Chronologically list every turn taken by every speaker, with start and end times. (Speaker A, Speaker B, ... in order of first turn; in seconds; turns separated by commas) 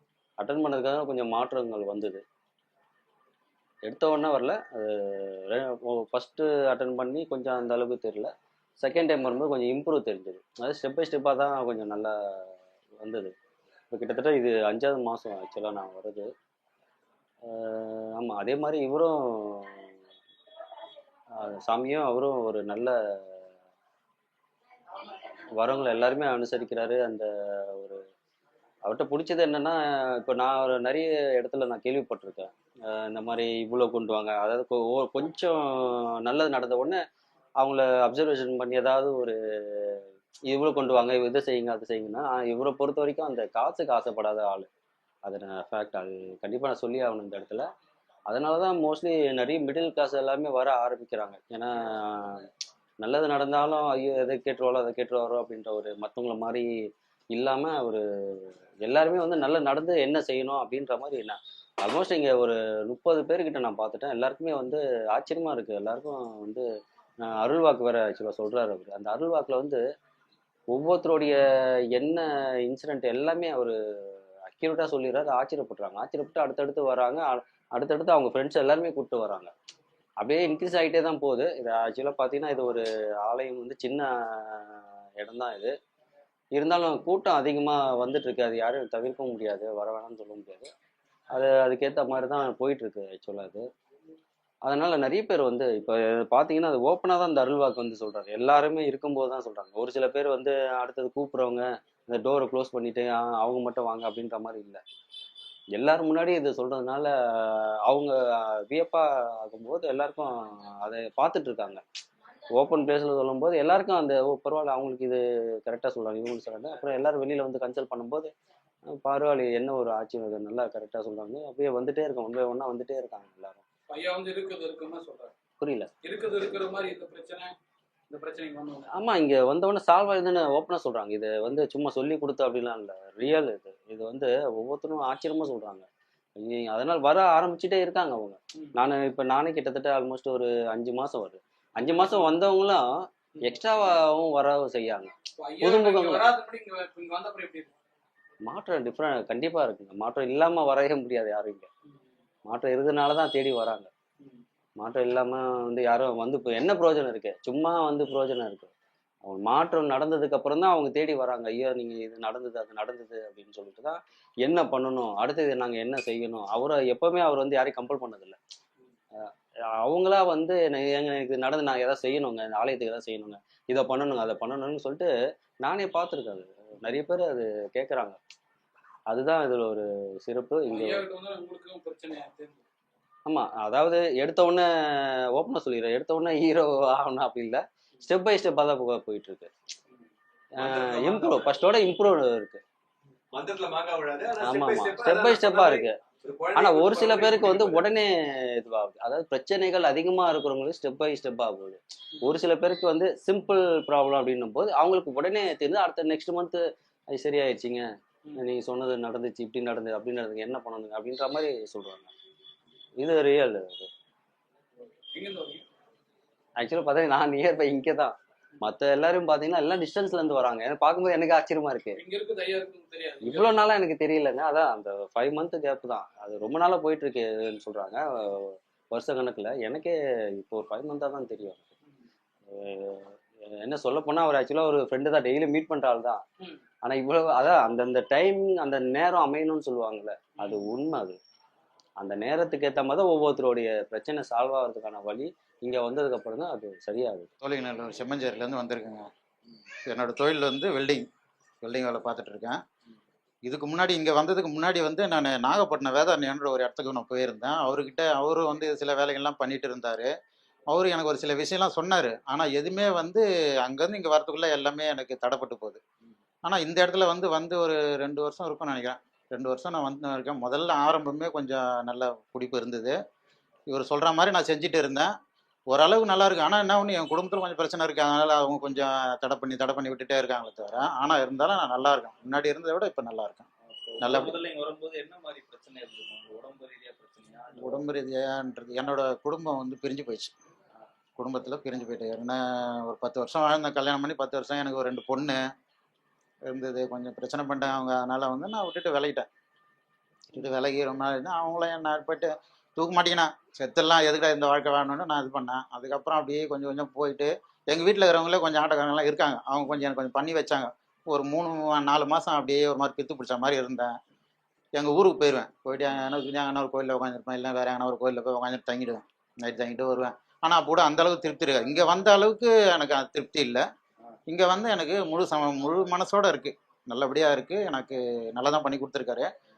Speaker A: 0.4-2.2, Speaker A: 3.8-8.3, Speaker A: 8.8-13.3, Speaker A: 13.9-16.3, Speaker A: 17.5-19.9, Speaker A: 21.4-22.9, Speaker A: 25.6-28.0, Speaker A: 28.9-37.0, Speaker A: 37.6-44.7, Speaker A: 45.2-47.6, Speaker A: 48.3-52.5, Speaker A: 53.0-56.7, Speaker A: 57.3-66.6, Speaker A: 67.3-69.8, Speaker A: 70.7-71.3, Speaker A: 71.9-79.5, Speaker A: 80.2-85.7, Speaker A: 86.5-90.7, Speaker A: 91.3-93.6, Speaker A: 94.6-104.8, Speaker A: 105.7-111.8, Speaker A: 112.5-118.3, Speaker A: 118.9-123.6, Speaker B: 123.9-125.3, Speaker A: 125.6-125.9, Speaker B: 126.0-127.5, Speaker B: 128.1-128.9, Speaker A: 128.9-135.8, Speaker A: 136.4-142.8, Speaker A: 143.4-146.3, Speaker B: 145.4-147.7, Speaker A: 148.4-151.7, Speaker A: 152.4-153.9, Speaker A: 154.8-158.7, Speaker A: 159.2-168.4, Speaker A: 169.8-175.1, Speaker A: 175.6-178.2, Speaker A: 179.1-181.1, Speaker B: 180.7-182.6, Speaker A: 183.2-189.5, Speaker A: 190.6-192.6, Speaker C: 190.6-191.5, Speaker C: 193.3-197.8, Speaker A: 194.4-196.0, Speaker A: 196.5-207.8, Speaker A: 208.4-212.1, Speaker A: 213.0-213.9, Speaker B: 215.0-215.6, Speaker A: 216.6-222.0, Speaker B: 221.9-223.5, Speaker A: 223.2-231.6, Speaker A: 232.5-236.2, Speaker A: 236.8-241.2, Speaker A: 242.0-247.3, Speaker D: 247.4-249.1, Speaker D: 249.8-251.0, Speaker D: 251.6-252.6, Speaker D: 253.4-260.1, Speaker D: 260.7-265.8, Speaker D: 266.4-272.9, Speaker D: 273.7-275.1, Speaker D: 275.7-283.4, Speaker E: 283.7-287.9, Speaker D: 284.0-284.4, Speaker D: 287.6-290.3, Speaker D: 291.2-295.4, Speaker D: 296.5-299.3, Speaker D: 300.3-313.9, Speaker D: 314.7-323.6, Speaker D: 324.3-329.3